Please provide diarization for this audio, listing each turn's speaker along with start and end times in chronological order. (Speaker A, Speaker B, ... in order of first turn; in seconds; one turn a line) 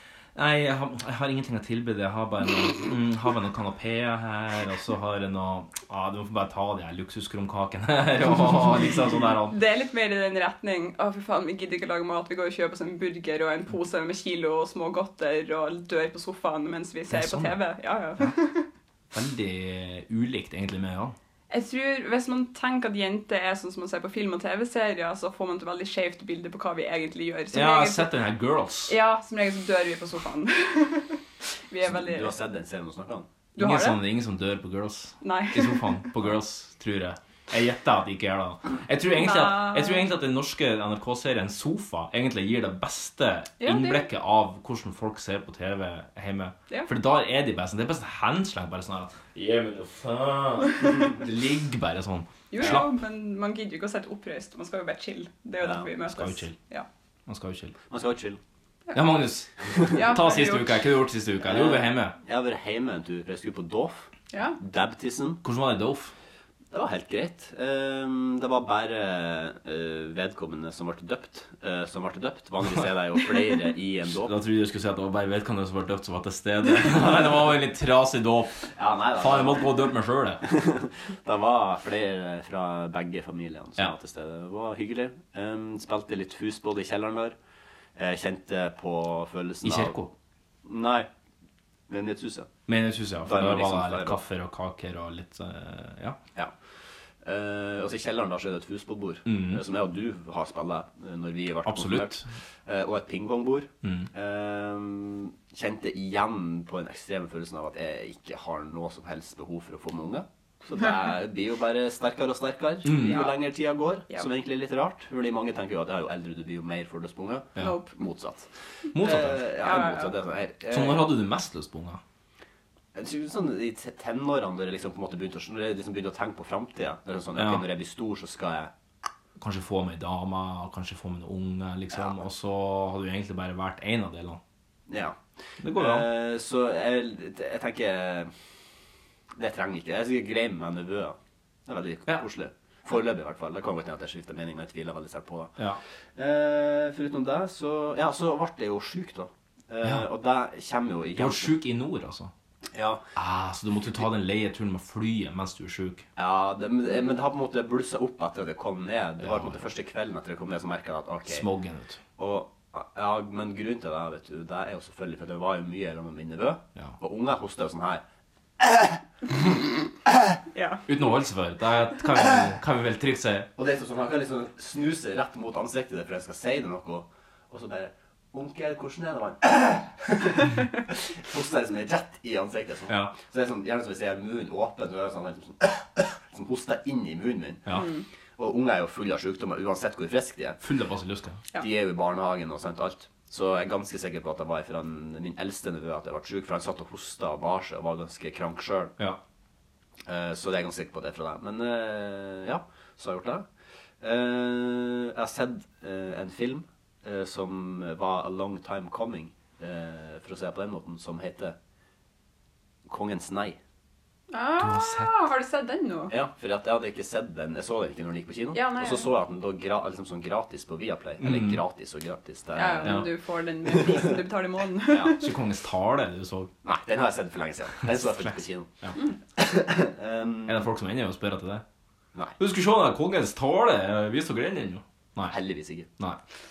Speaker A: 0.3-9.6
Speaker B: 9.5-18.7
Speaker A: 17.1-17.6
Speaker A: 19.1-21.1
Speaker B: 21.5-28.1
Speaker A: 27.5-28.9
Speaker B: 28.9-32.3
Speaker C: 31.8-33.3
Speaker B: 33.5-34.0
Speaker A: 33.6-52.9
Speaker B: 35.2-36.0
Speaker B: 39.1-40.1
Speaker B: 43.6-44.1
Speaker B: 52.5-56.9
Speaker C: 55.6-55.9
Speaker A: 56.1-56.6
Speaker A: 57.3-57.8
Speaker C: 57.9-58.4
Speaker A: 58.9-62.1
Speaker B: 59.9-60.8
Speaker C: 61.4-64.1
Speaker B: 64.3-64.6
Speaker C: 64.6-65.4
Speaker A: 65.4-66.1
Speaker C: 66.7-74.3
Speaker A: 74.2-80.4
Speaker C: 78.7-79.7
Speaker C: 80.4-87.3
Speaker C: 88.0-89.9
Speaker A: 89.6-90.1
Speaker C: 90.6-91.1
Speaker C: 91.9-92.5
Speaker A: 92.7-96.2
Speaker C: 93.2-94.2
Speaker C: 97.2-121.1
Speaker A: 99.2-99.6
Speaker A: 101.6-102.3
Speaker A: 103.8-104.1
Speaker A: 112.8-113.3
Speaker B: 113.0-113.3
Speaker B: 117.6-117.9
Speaker A: 118.9-119.5
Speaker B: 119.6-120.1
Speaker A: 120.7-122.0
Speaker C: 122.9-128.7
Speaker A: 127.3-127.6
Speaker A: 129.4-134.4
Speaker C: 134.9-135.2
Speaker A: 135.6-136.1
Speaker C: 135.7-138.3
Speaker C: 139.3-145.5
Speaker C: 146.2-151.5
Speaker A: 151.2-152.3
Speaker C: 152.7-153.0
Speaker A: 153.2-156.1
Speaker C: 156.2-161.4
Speaker A: 159.2-159.6
Speaker A: 161.3-162.0
Speaker C: 162.2-168.0
Speaker C: 168.6-169.0
Speaker B: 170.5-170.8
Speaker A: 170.9-173.5
Speaker C: 173.6-187.7
Speaker A: 182.9-183.1
Speaker B: 187.7-188.0
Speaker C: 188.4-190.6
Speaker A: 190.6-191.4
Speaker C: 191.6-198.9
Speaker C: 200.1-203.5
Speaker C: 204.0-211.6
Speaker C: 212.8-213.6
Speaker B: 214.3-216.1
Speaker A: 214.6-215.1
Speaker C: 216.1-223.1
Speaker B: 218.5-219.1
Speaker A: 221.2-221.6
Speaker B: 222.5-225.3
Speaker C: 223.7-224.1
Speaker C: 224.9-225.1
Speaker A: 225.1-226.5
Speaker C: 226.6-228.8
Speaker A: 227.8-228.9
Speaker C: 229.3-230.6
Speaker A: 230.5-231.6
Speaker A: 232.4-235.4
Speaker C: 235.3-235.9